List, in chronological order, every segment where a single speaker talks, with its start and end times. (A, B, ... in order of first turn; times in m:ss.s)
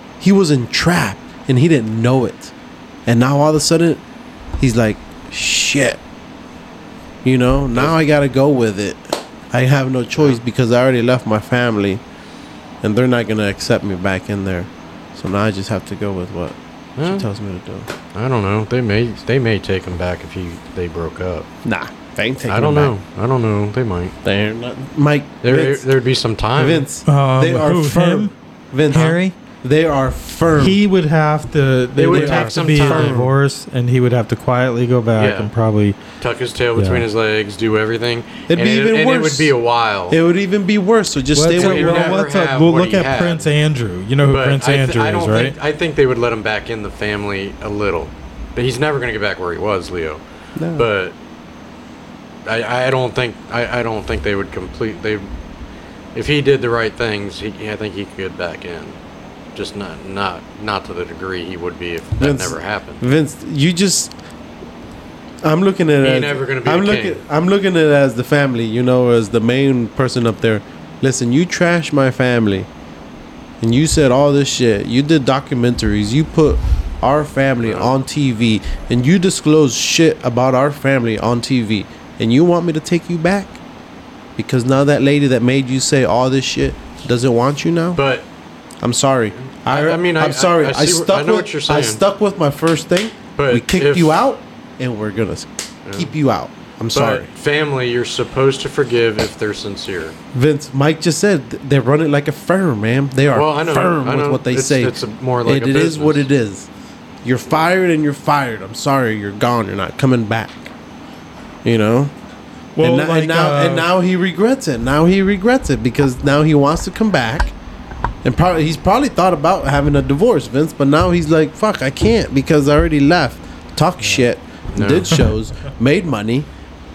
0:00.2-0:02.5 A
0:03.1-0:04.0 A
0:04.6-0:06.0 A
0:07.2-0:12.0 A
0:12.8-0:17.9 A
0:17.0-0:17.3 B
0:18.1-0:21.5 B
0:21.6-0:23.0 A
0:22.5-0:24.2 B
0:24.2-0:25.9 A
0:25.4-0:26.9 B
0:26.6-0:30.8 A
0:27.1-0:28.3 C
0:28.9-0:29.4 C
0:28.9-0:29.2 B
0:30.6-0:36.0 C
0:32.0-0:33.3 B
0:32.1-0:33.3 A
0:35.2-0:35.5 B
0:36.2-0:40.2 B
0:36.8-0:37.1 C
0:38.5-0:39.5 A
0:40.1-0:42.2 A
0:41.3-0:45.6 C
0:41.5-0:43.5 B
0:44.3-0:50.2 B
0:50.6-0:50.9 A
0:50.8-0:51.2 B
0:52.5-0:55.3 B
0:56.2-0:59.0 B
0:59.6-1:03.0 B
1:02.2-1:04.2 A
1:05.4-1:12.7 A
1:06.0-1:07.2 B
1:13.6-1:23.6 A
1:17.6-1:17.9 B
1:24.4-1:28.0 A
1:28.0-1:28.3 B
1:28.8-1:37.3 A
1:29.7-1:32.0 B
1:33.4-1:34.2 B
1:35.9-1:36.1 B
1:36.9-1:40.2 B
1:40.3-1:46.7 A
1:43.3-1:46.3 B
1:47.2-1:50.7 A
1:51.6-1:52.1 A
1:52.8-1:53.9 C
1:52.8-1:57.5 A
1:58.2-2:06.5 A
2:04.7-2:05.2 B